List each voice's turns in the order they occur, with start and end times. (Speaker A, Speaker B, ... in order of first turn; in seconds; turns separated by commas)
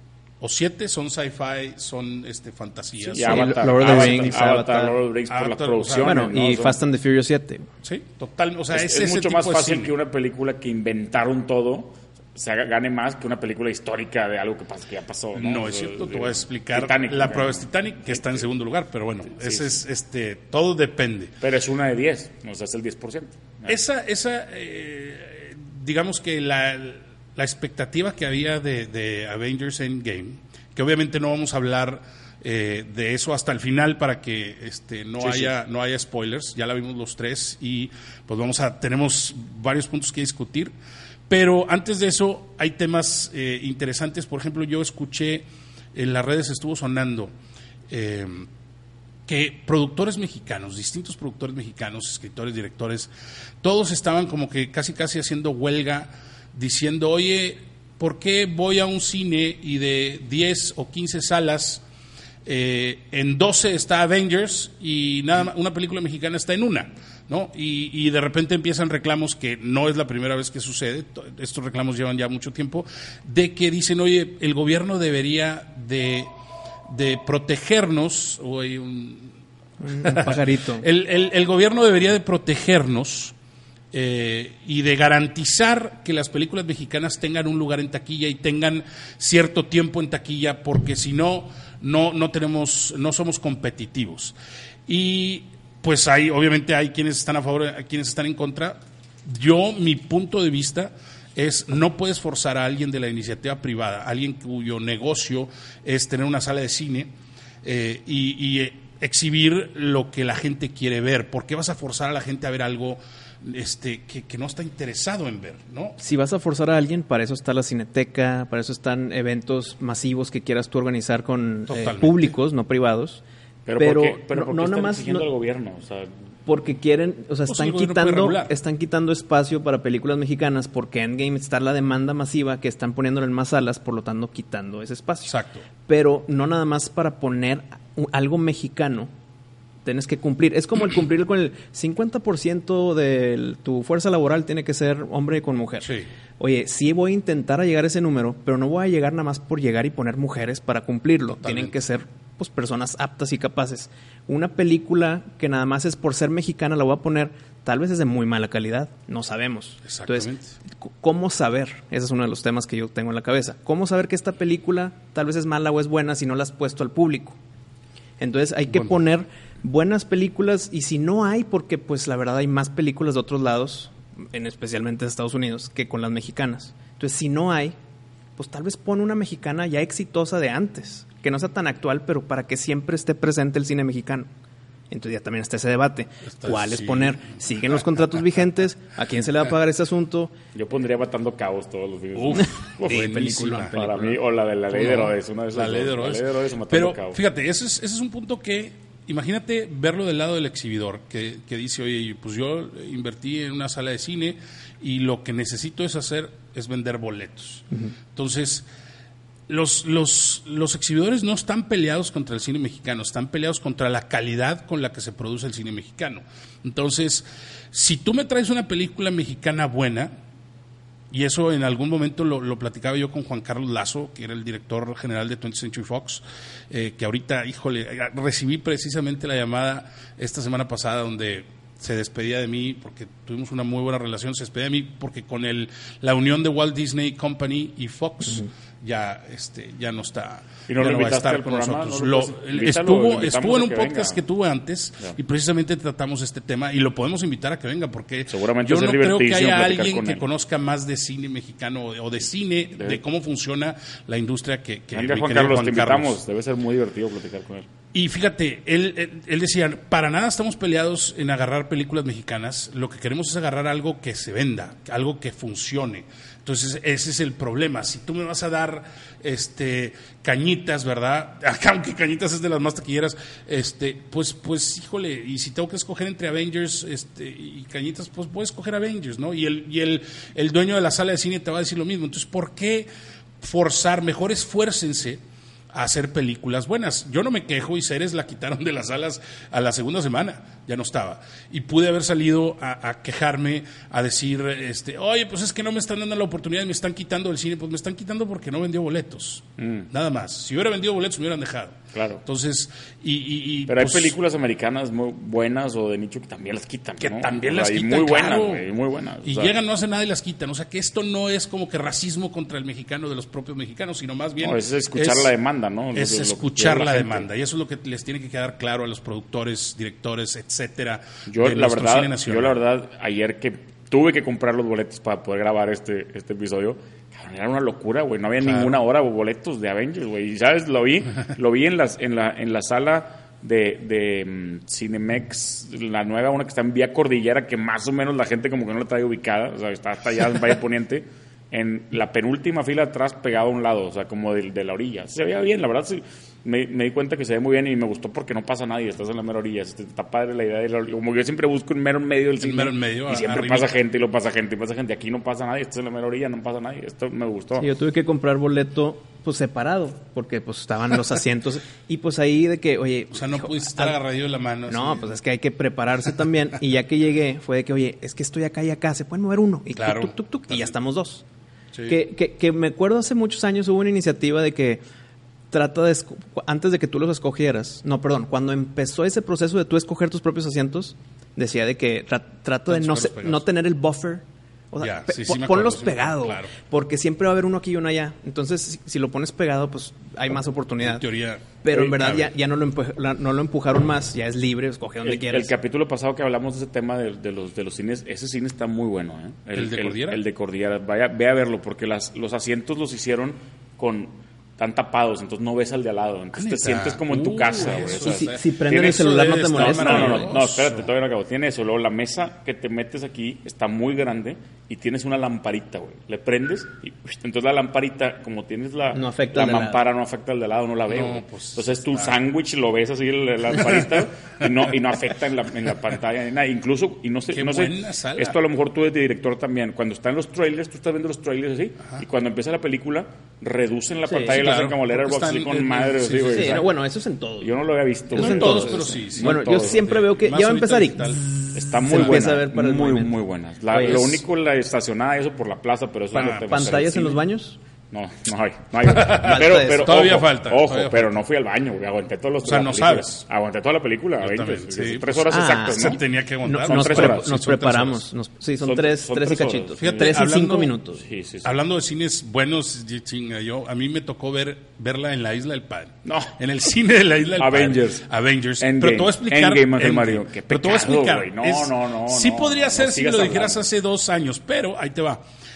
Speaker A: 0.4-4.3, Speaker B: 3.0-6.8, Speaker C: 3.2-5.0, Speaker A: 5.3-6.2, Speaker C: 6.0-7.7, Speaker A: 7.8-9.9, Speaker B: 8.7-18.5, Speaker A: 15.3-21.3, Speaker B: 19.3-19.8, Speaker B: 21.4-23.8, Speaker A: 23.7-40.7, Speaker B: 35.2-35.5, Speaker A: 41.3-47.3, Speaker A: 47.9-48.5, Speaker A: 49.3-53.1, Speaker A: 53.6-61.8, Speaker A: 62.5-76.3, Speaker A: 76.9-79.3, Speaker C: 79.8-80.9, Speaker A: 80.0-83.3, Speaker A: 83.9-94.3, Speaker A: 94.9-107.1, Speaker A: 107.6-116.0, Speaker C: 116.0-123.2, Speaker A: 121.7-122.3, Speaker B: 123.7-126.1, Speaker C: 123.8-125.3, Speaker C: 126.5-135.3, Speaker A: 127.5-128.5, Speaker A: 135.3-135.7, Speaker C: 135.9-139.1, Speaker C: 139.8-167.4, Speaker A: 145.8-146.1, Speaker A: 151.4-151.7, Speaker A: 159.8-160.6, Speaker C: 168.2-177.8, Speaker C: 178.4-184.3, Speaker C: 184.9-190.3, Speaker A: 186.3-187.3, Speaker B: 190.6-197.2, Speaker A: 192.2-194.1, Speaker C: 192.9-194.1, Speaker A: 194.7-208.7, Speaker A: 209.5-220.1, Speaker A: 221.1-256.2, Speaker B: 240.7-244.2, Speaker B: 248.3-250.2, Speaker B: 254.9-257.7, Speaker A: 257.9-282.9, Speaker A: 283.4-285.2, Speaker A: 285.7-304.1, Speaker B: 299.6-299.9, Speaker B: 301.9-302.2, Speaker B: 303.7-309.5, Speaker A: 307.0-308.7, Speaker A: 309.2-315.3, Speaker B: 314.4-317.3, Speaker A: 315.9-322.6, Speaker B: 321.3-357.7, Speaker A: 328.4-328.8, Speaker A: 352.4-353.7, Speaker C: 357.6-364.0, Speaker A: 363.1-365.1, Speaker C: 364.7-371.2, Speaker A: 369.8-370.7, Speaker C: 371.9-374.8, Speaker C: 375.5-391.1, Speaker A: 382.7-383.4, Speaker A: 384.8-386.5, Speaker A: 390.8-392.3, Speaker C: 391.6-395.5, Speaker B: 395.1-408.3, Speaker A: 399.6-400.2, Speaker A: 406.4-410.9, Speaker C: 407.6-410.3, Speaker B: 409.5-436.7, Speaker C: 418.9-419.8, Speaker A: 420.9-422.2, Speaker A: 427.3-428.4, Speaker C: 434.1-434.5, Speaker A: 434.3-436.6, Speaker C: 436.3-437.5, Speaker B: 437.4-439.9, Speaker C: 438.1-443.1, Speaker A: 438.2-441.2, Speaker B: 441.5-447.2, Speaker C: 443.7-444.2, Speaker C: 446.1-447.6, Speaker B: 447.9-456.1, Speaker A: 448.9-451.1, Speaker C: 449.2-449.9, Speaker A: 452.4-453.2, Speaker A: 454.2-458.0, Speaker C: 455.3-461.0, Speaker B: 456.6-457.7, Speaker B: 458.6-460.2, Speaker A: 459.8-460.8, Speaker B: 461.0-461.5, Speaker A: 461.4-475.2, Speaker B: 466.1-466.4, Speaker B: 467.4-468.1, Speaker B: 468.6-473.7